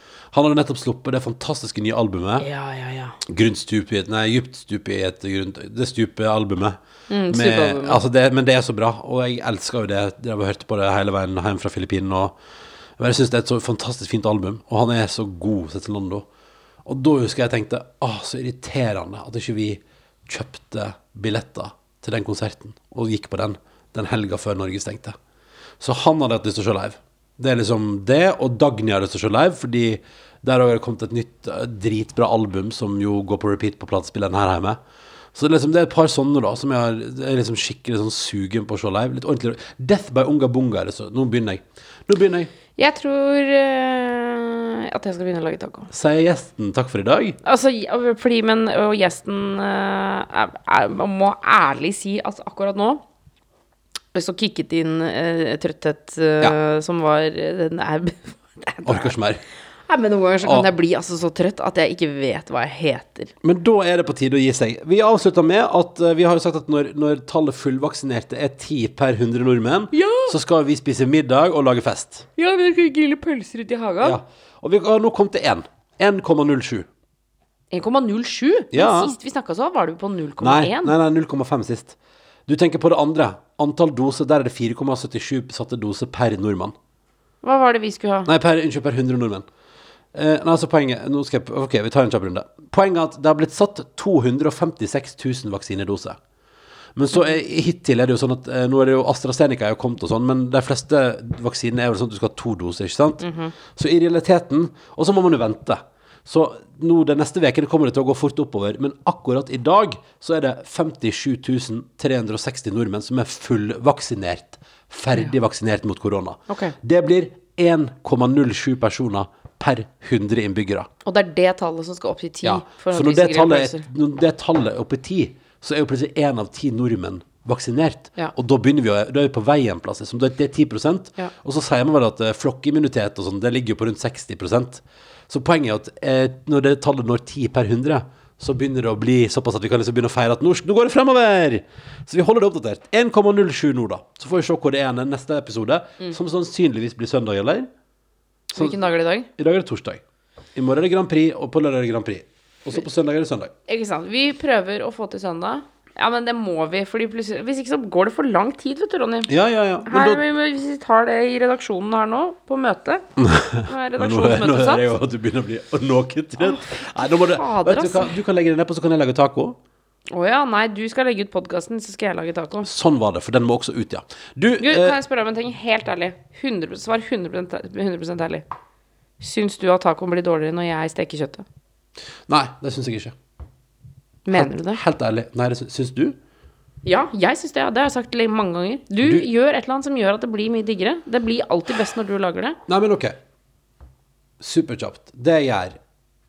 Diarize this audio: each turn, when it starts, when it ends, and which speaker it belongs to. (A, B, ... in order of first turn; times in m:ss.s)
0:00.3-0:02.4 A
0:02.4-0:03.2 B
0:03.2-0:06.8 A
0:07.1-0:08.0 B
0:07.3-0:12.3 A
0:13.0-0:16.3 A
0:16.8-0:25.1 A
0:25.8-0:34.8 A
0:35.3-0:42.5 A
0:42.7-0:45.9 B
0:45.9-0:47.4 A
0:47.4-0:53.0 B
0:54.1-0:59.1 B
0:58.8-0:59.4 A
0:59.9-1:03.3 B
1:03.4-1:12.3 A
1:09.9-1:10.3 B
1:12.4-1:14.2 B
1:14.0-1:16.9 A
1:17.7-1:20.9 B
1:18.7-1:19.1 A
1:20.4-1:21.9 A
1:22.5-1:26.7 A
1:27.4-1:28.3 B
1:28.2-1:29.4 A
1:30.1-1:36.2 A
1:37.0-2:00.9 A
1:43.2-1:43.5 B
1:56.5-1:56.7 B
2:01.0-2:03.8 B
2:02.4-2:27.7 A
2:28.5-2:29.3 B
2:29.4-2:30.0 A
2:30.5-2:33.5 A
2:33.7-2:39.3 B
2:39.3-2:40.2 A
2:39.8-2:43.0 B
2:43.2-2:49.6 A
2:43.6-2:44.9 B
2:46.4-2:48.1 B
2:50.1-2:52.7 B
2:52.6-2:55.0 A
2:54.6-2:58.4 B
2:59.2-3:01.4 B
3:02.3-3:03.1 A
3:04.2-3:04.8 B
3:04.3-3:06.2 A
3:06.8-3:12.6 B
3:09.0-3:09.3 A
3:12.7-3:13.2 A
3:14.4-3:15.8 A